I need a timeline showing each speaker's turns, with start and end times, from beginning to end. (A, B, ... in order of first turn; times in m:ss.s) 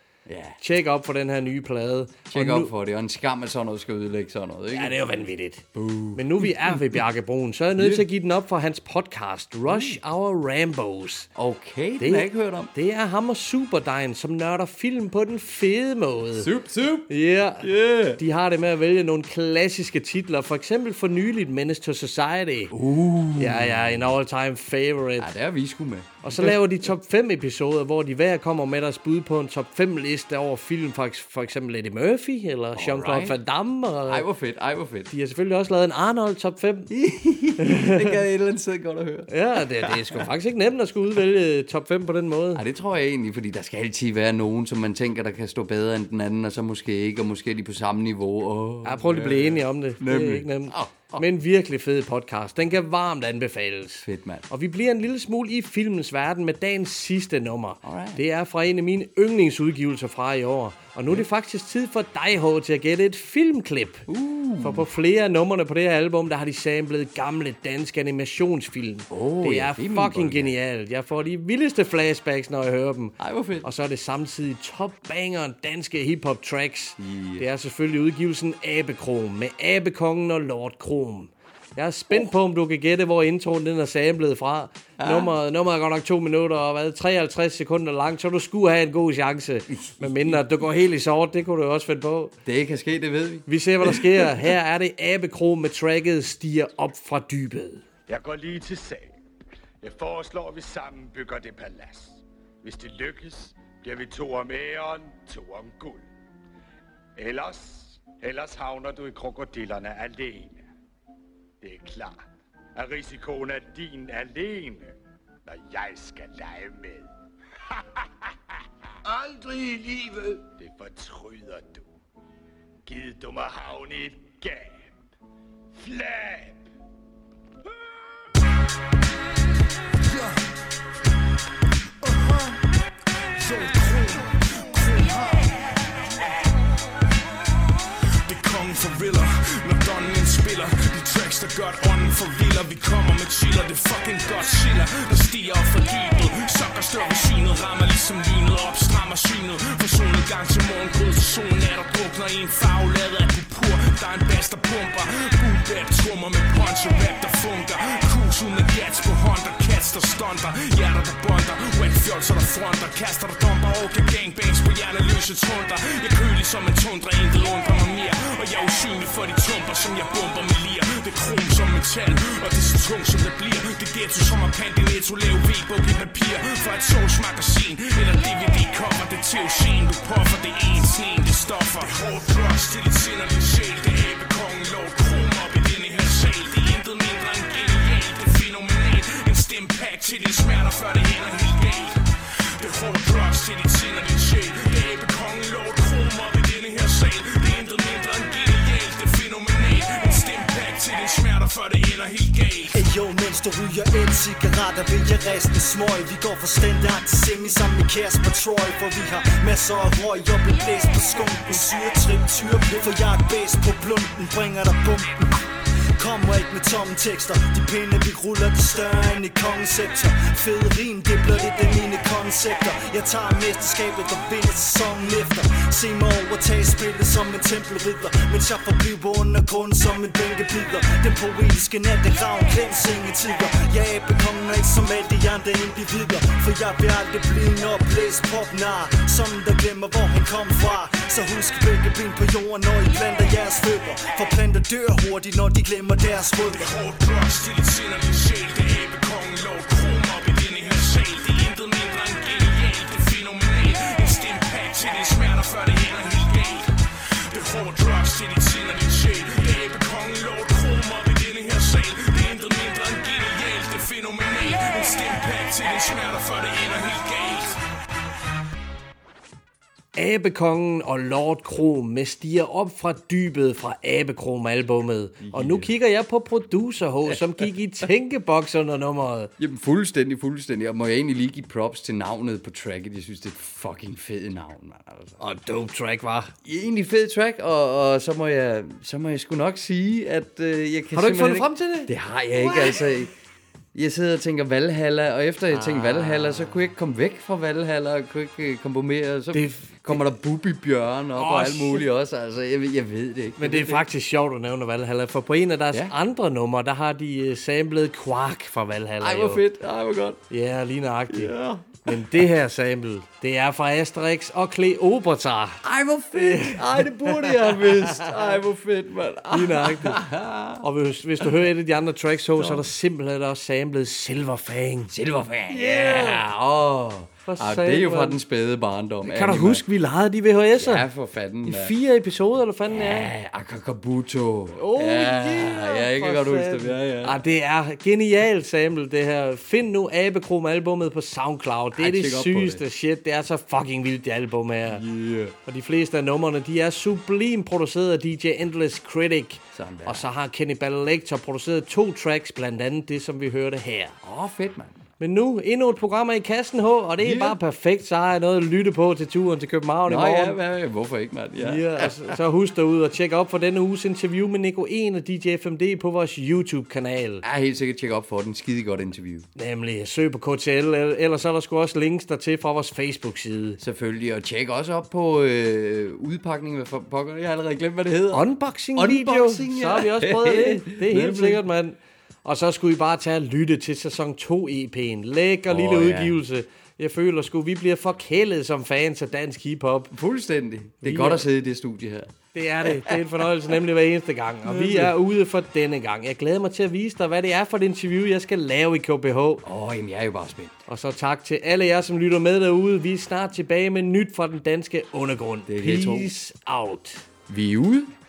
0:00.3-0:00.6 A
0:00.6-0:02.7 B
0:02.3-0:05.2 A
0:04.7-0:05.6 B
0:05.7-0:07.0 A
0:06.2-0:11.3 B
0:07.8-0:08.1 A
0:09.7-0:10.0 A
0:11.4-0:12.7 A
0:12.0-0:16.5 B
0:16.4-0:18.2 A
0:17.1-0:22.7 B
0:22.7-0:24.1 A
0:23.4-0:25.3 B
0:25.2-0:26.8 A
0:26.2-0:34.3 B
0:32.8-0:33.4 A
0:34.0-0:35.1 A
0:35.1-0:36.9 B
0:36.9-0:40.2 A
0:39.3-0:42.6 B
0:42.6-0:51.2 A
0:48.8-1:04.1 B
0:54.0-0:54.5 A
0:57.8-0:58.2 A
1:04.1-1:04.9 A
1:04.6-1:32.3 B
1:09.1-1:10.6 A
1:13.2-1:13.7 A
1:17.0-1:17.5 A
1:25.0-1:25.3 A
1:29.7-1:30.6 A
1:32.4-1:34.3 A
1:33.5-1:37.8 B
1:38.1-1:39.1 C
1:39.8-1:46.0 C
1:47.2-1:50.6 C
1:51.6-1:52.2 C
1:52.8-1:54.9 C
1:55.5-1:57.1 C
1:57.8-1:58.1 C
2:00.6-2:01.9 C
2:02.9-2:04.9 C
2:05.8-2:06.7 C
2:13.5-2:15.3 D
2:18.3-3:12.0 D
3:12.6-3:22.8 D
3:22.7-3:35.3 E
3:36.0-4:06.7 E
4:06.4-4:16.7 D
4:17.3-4:27.6 D
4:30.0-4:39.3 B
4:35.2-4:35.7 A
4:39.4-4:45.2 A
4:45.2-4:46.3 B
4:46.4-4:53.1 A
4:50.9-4:52.8 B
4:53.8-5:03.9 A
4:55.5-4:56.6 B
4:59.3-5:00.0 B
5:01.2-5:01.9 B
5:03.4-5:09.4 B
5:09.0-5:10.2 A
5:10.3-5:15.6 B
5:11.1-5:12.0 A
5:15.6-5:20.6 A
5:16.1-5:18.4 B
5:19.3-5:20.0 B
5:20.6-5:24.9 B
5:22.4-5:22.7 A
5:24.9-5:29.6 A
5:25.5-5:26.2 B
5:27.2-5:28.2 B
5:29.0-5:30.9 B
5:30.6-5:31.8 A
5:31.4-5:33.1 B
5:32.7-5:37.2 A
5:34.6-5:44.8 B
5:41.8-5:42.6 A
5:44.7-5:45.4 A
5:45.4-5:54.0 B
5:49.5-5:50.1 A
5:54.0-5:54.8 A
5:55.0-6:00.4 B
5:57.0-5:57.4 A
5:59.9-6:02.2 A
6:01.4-6:07.2 B
6:07.2-6:09.2 A
6:09.4-6:13.6 B
6:13.6-6:21.4 A
6:18.1-6:29.9 B
6:25.5-6:26.2 A
6:29.9-6:32.1 A
6:30.8-6:31.2 B
6:32.3-6:39.4 B
6:32.7-6:33.1 A
6:34.4-6:35.0 A
6:39.4-6:40.6 A
6:40.7-6:47.0 B
6:45.5-6:46.1 A
6:47.3-6:47.9 A